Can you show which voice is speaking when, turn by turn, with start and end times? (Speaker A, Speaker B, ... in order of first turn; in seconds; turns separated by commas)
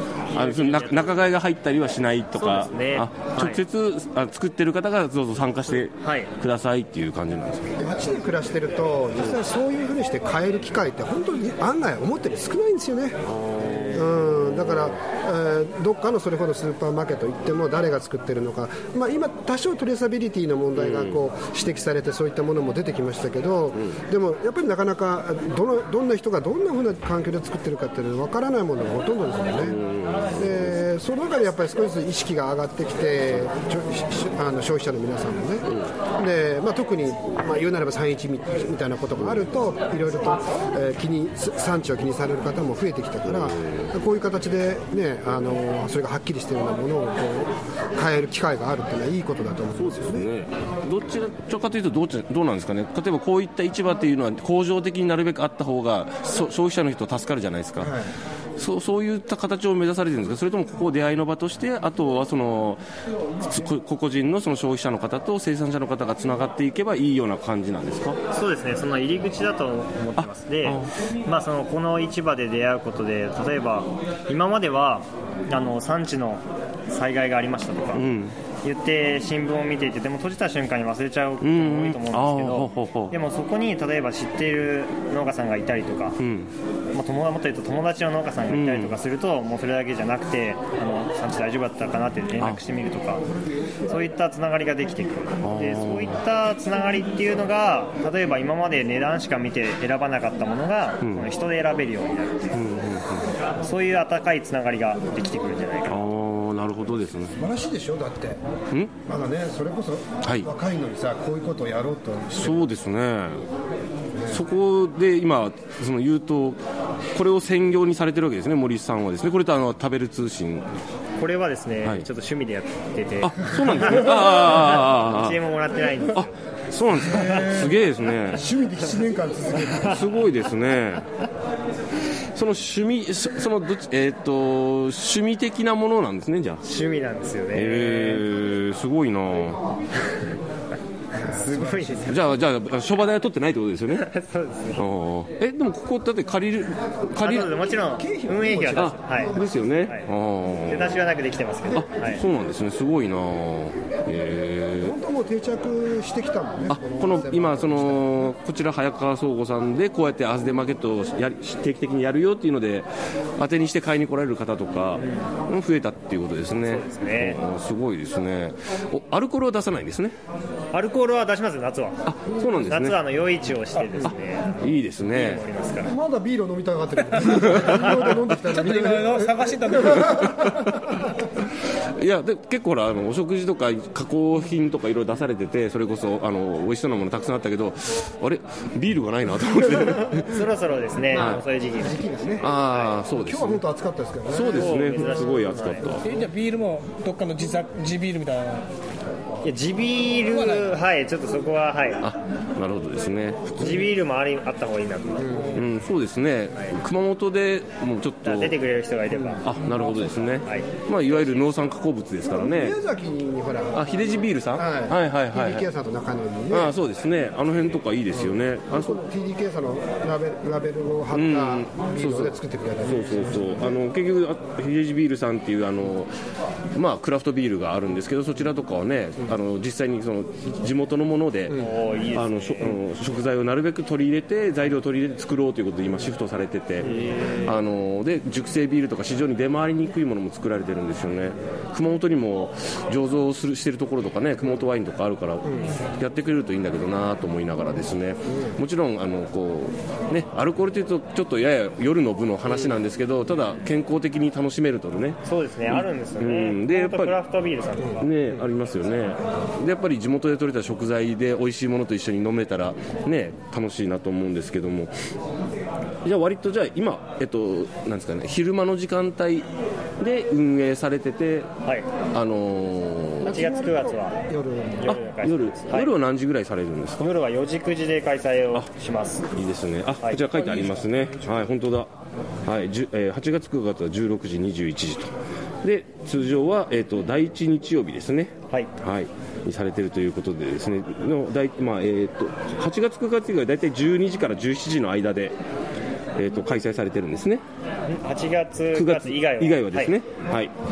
Speaker A: 0.3-1.1, Speaker B: 0.3-7.8, Speaker A: 2.4-3.6, Speaker A: 6.0-6.3, Speaker C: 7.8-13.2, Speaker B: 13.3-14.9, Speaker C: 13.9-29.8, Speaker B: 20.8-21.2, Speaker B: 29.6-30.8, Speaker C: 30.3-50.3, Speaker B: 43.3-43.9, Speaker B: 49.8-57.9, Speaker C: 57.8-58.1, Speaker B: 58.6-62.8, Speaker B: 63.4-68.2, Speaker A: 68.3-78.1, Speaker B: 70.2-70.9, Speaker B: 77.9-78.4, Speaker A: 78.6-86.2, Speaker B: 81.4-83.1, Speaker B: 86.2-86.5, Speaker A: 86.9-93.2, Speaker B: 88.5-89.0, Speaker A: 93.9-102.6, Speaker B: 95.4-96.2, Speaker B: 101.0-101.3, Speaker B: 102.5-103.3, Speaker A: 103.6-106.0, Speaker B: 105.9-107.4, Speaker C: 107.4-108.4, Speaker C: 109.0-112.6, Speaker B: 112.3-113.4, Speaker C: 114.1-114.4, Speaker B: 114.3-116.6, Speaker B: 117.1-120.7, Speaker A: 121.2-126.3, Speaker B: 123.2-125.4, Speaker B: 126.1-128.5, Speaker C: 127.0-127.8, Speaker C: 128.3-130.0, Speaker B: 129.8-131.0, Speaker B: 132.3-136.6, Speaker A: 136.6-138.2, Speaker B: 137.5-139.6, Speaker C: 141.2-142.2, Speaker A: 141.2-142.2, Speaker B: 142.1-144.1, Speaker A: 143.9-144.8, Speaker B: 144.8-147.6, Speaker A: 147.2-150.1, Speaker C: 148.0-149.6, Speaker B: 148.8-151.0, Speaker A: 150.7-152.2, Speaker B: 151.7-155.0, Speaker C: 154.8-158.1, Speaker B: 156.7-170.1, Speaker A: 165.0-165.3, Speaker A: 166.5-167.4, Speaker A: 170.7-176.0, Speaker B: 172.0-173.0, Speaker B: 174.6-175.4, Speaker C: 175.8-181.1, Speaker D: 177.1-180.3, Speaker B: 180.5-181.0, Speaker B: 182.0-190.4, Speaker A: 190.1-193.0, Speaker C: 191.1-192.5, Speaker B: 191.1-191.4, Speaker B: 192.4-193.6, Speaker C: 193.2-195.5, Speaker B: 194.3-196.1, Speaker A: 194.4-196.0, Speaker D: 196.0-198.7, Speaker A: 199.4-202.0, Speaker D: 200.3-200.7, Speaker B: 202.0-203.8, Speaker A: 203.6-205.6, Speaker C: 205.2-205.6, Speaker B: 205.5-208.5, Speaker A: 208.2-209.5, Speaker C: 209.1-210.1, Speaker B: 209.4-212.8, Speaker A: 210.4-210.7, Speaker C: 212.2-216.8, Speaker B: 213.7-215.7, Speaker B: 216.5-219.0, Speaker C: 218.1-223.8, Speaker B: 221.1-226.1, Speaker B: 226.7-231.6, Speaker A: 231.5-232.8, Speaker B: 232.1-257.1, Speaker A: 236.9-237.5, Speaker C: 245.4-245.8, Speaker C: 248.3-248.6, Speaker A: 255.2-258.1, Speaker B: 258.0-264.9, Speaker B: 266.0-269.5, Speaker B: 270.0-271.5, Speaker B: 272.1-273.4, Speaker C: 273.2-275.0, Speaker A: 273.3-274.2, Speaker A: 274.8-275.9, Speaker B: 274.9-277.0, Speaker A: 277.0-279.3, Speaker B: 279.3-281.9, Speaker C: 280.4-281.5, Speaker B: 282.4-295.4, Speaker B: 296.1-297.4, Speaker A: 297.9-300.0, Speaker B: 298.7-300.5